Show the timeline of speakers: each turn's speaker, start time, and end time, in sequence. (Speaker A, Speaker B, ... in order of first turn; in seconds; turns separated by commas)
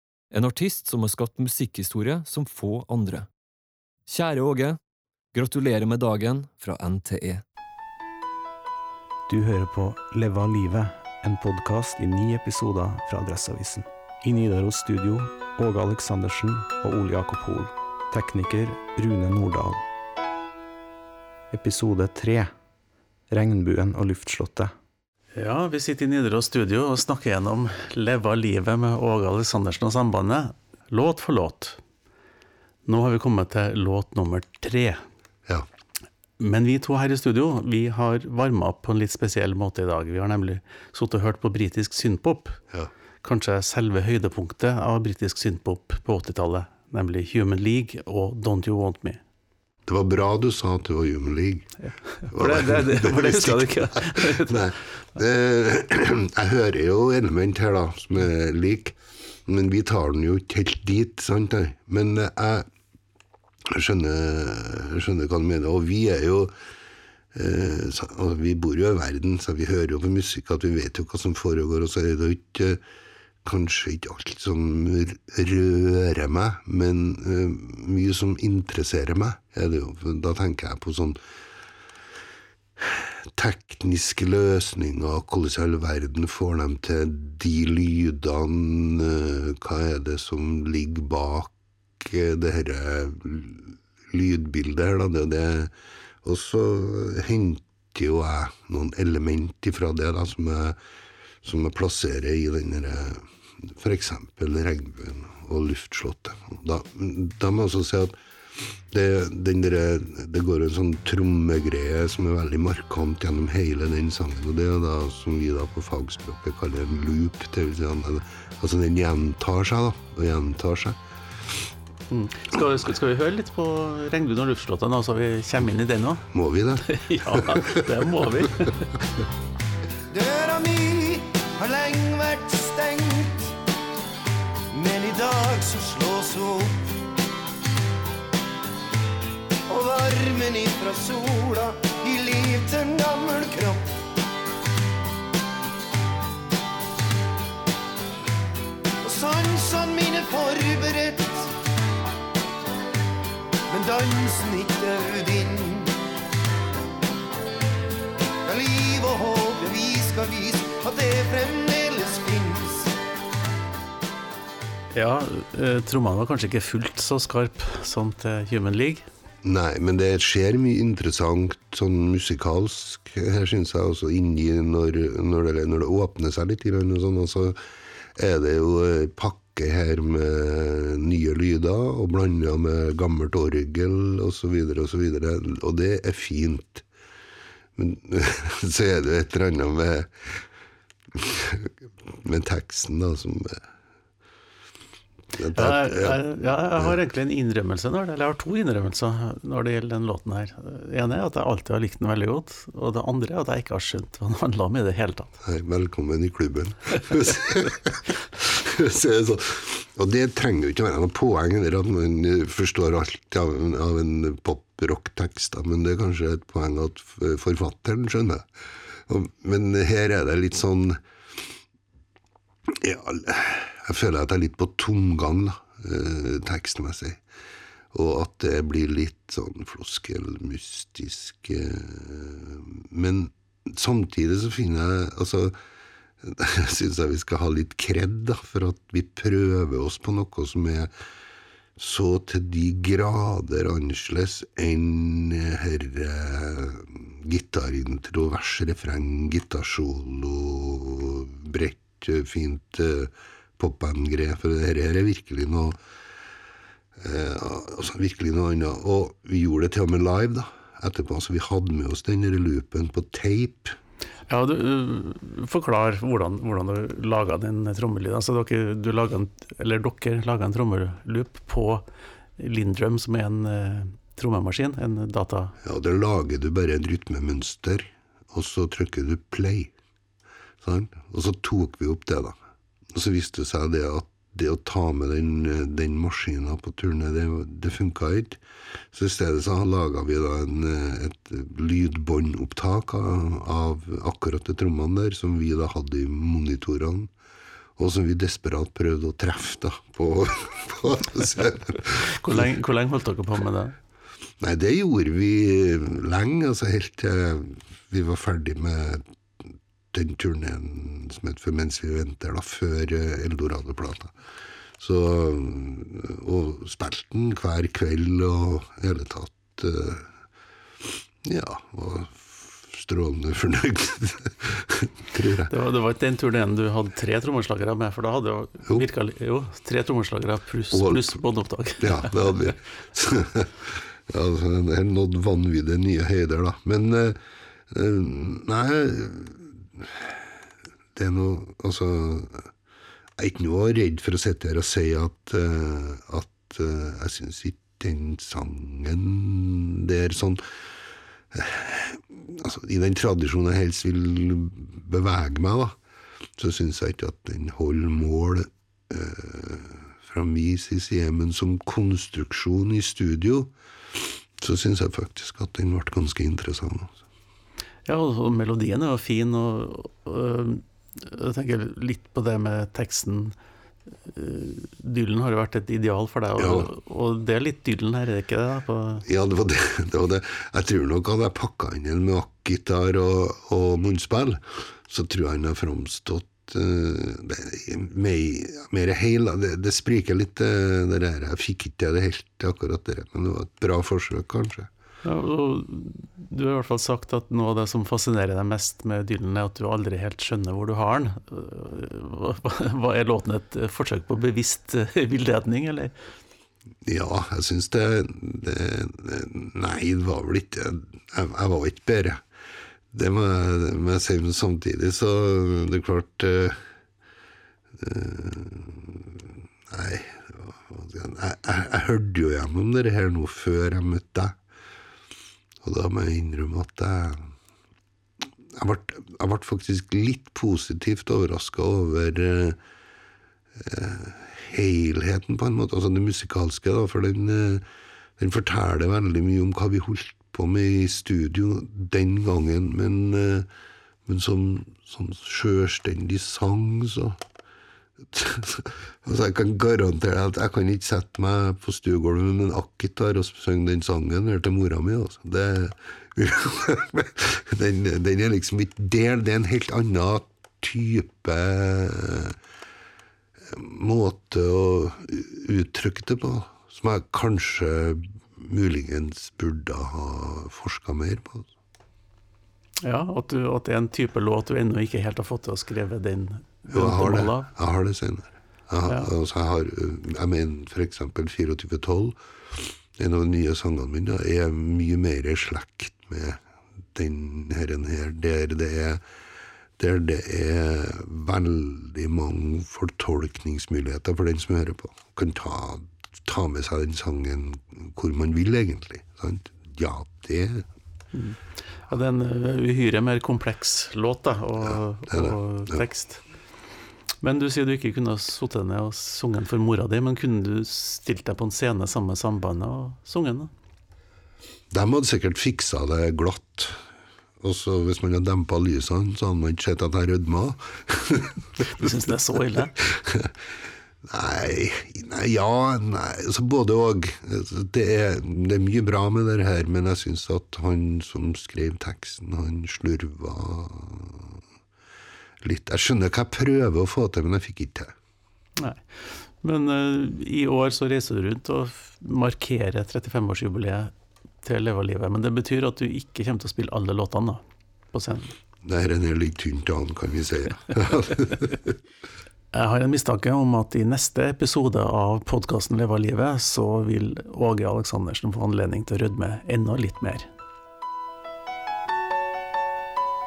Speaker A: 0.3-3.3, Speaker A: 4.1-4.8, Speaker A: 5.3-7.4, Speaker B: 9.3-19.8, Speaker B: 21.5-22.5, Speaker B: 23.3-24.7, Speaker C: 25.3-31.8, Speaker C: 32.9-35.0, Speaker C: 36.4-42.6, Speaker C: 43.2-49.2, Speaker D: 49.9-51.8, Speaker C: 52.2-54.6, Speaker D: 52.3-62.6, Speaker D: 63.7-66.5, Speaker D: 67.3-72.8, Speaker D: 73.4-81.2, Speaker D: 82.8-95.7, Speaker D: 96.2-100.8, Speaker D: 101.4-108.1, Speaker D: 108.9-121.0, Speaker C: 122.1-126.3, Speaker D: 126.3-128.0, Speaker C: 126.8-128.9, Speaker E: 130.1-133.5, Speaker E: 134.7-136.9, Speaker E: 139.7-144.0, Speaker E: 149.0-151.5, Speaker E: 153.7-155.9, Speaker E: 158.4-162.9, Speaker C: 164.9-169.1, Speaker D: 169.4-177.6, Speaker D: 178.2-186.8, Speaker D: 187.8-190.4, Speaker D: 191.1-193.6, Speaker D: 195.3-196.2, Speaker C: 195.5-205.3, Speaker D: 205.4-218.4, Speaker D: 219.1-221.0, Speaker D: 222.7-227.2, Speaker D: 227.9-235.5, Speaker D: 236.2-240.9, Speaker D: 241.8-255.8, Speaker D: 257.0-263.7, Speaker C: 264.3-271.9, Speaker C: 272.4-275.5, Speaker D: 275.6-279.7, Speaker D: 280.6-282.3, Speaker D: 282.9-288.4, Speaker D: 288.9-297.1, Speaker D: 297.8-302.1, Speaker C: 301.9-303.8, Speaker D: 304.4-309.0, Speaker D: 309.9-314.1, Speaker D: 314.8-320.1, Speaker D: 321.2-325.5, Speaker C: 325.5-332.5, Speaker D: 330.7-331.2, Speaker D: 331.8-337.2, Speaker D: 337.7-340.1, Speaker D: 340.9-342.5, Speaker D: 343.2-350.4, Speaker D: 351.3-355.8, Speaker D: 356.4-363.5, Speaker D: 364.4-367.0, Speaker C: 367.9-373.3, Speaker C: 374.1-379.0, Speaker D: 376.4-376.7, Speaker D: 379.0-394.7, Speaker C: 395.0-405.9, Speaker D: 406.8-412.2, Speaker D: 412.9-416.6, Speaker D: 417.8-424.4, Speaker D: 425.6-427.3, Speaker D: 428.6-432.6, Speaker D: 433.6-437.6, Speaker D: 438.2-443.5, Speaker D: 444.1-447.2, Speaker D: 448.1-462.4, Speaker D: 463.5-471.5, Speaker C: 472.8-477.5, Speaker D: 476.7-486.4, Speaker D: 486.9-489.0, Speaker D: 489.8-500.6, Speaker C: 501.1-506.2, Speaker D: 505.1-505.8, Speaker C: 507.2-513.5, Speaker D: 514.7-516.8, Speaker D: 517.4-521.9, Speaker C: 521.6-522.7, Speaker D: 522.8-523.3, Speaker D: 524.0-534.4, Speaker D: 535.4-537.9, Speaker C: 538.6-543.9, Speaker C: 544.4-547.4, Speaker C: 547.9-548.3, Speaker D: 548.6-551.7, Speaker C: 552.5-560.3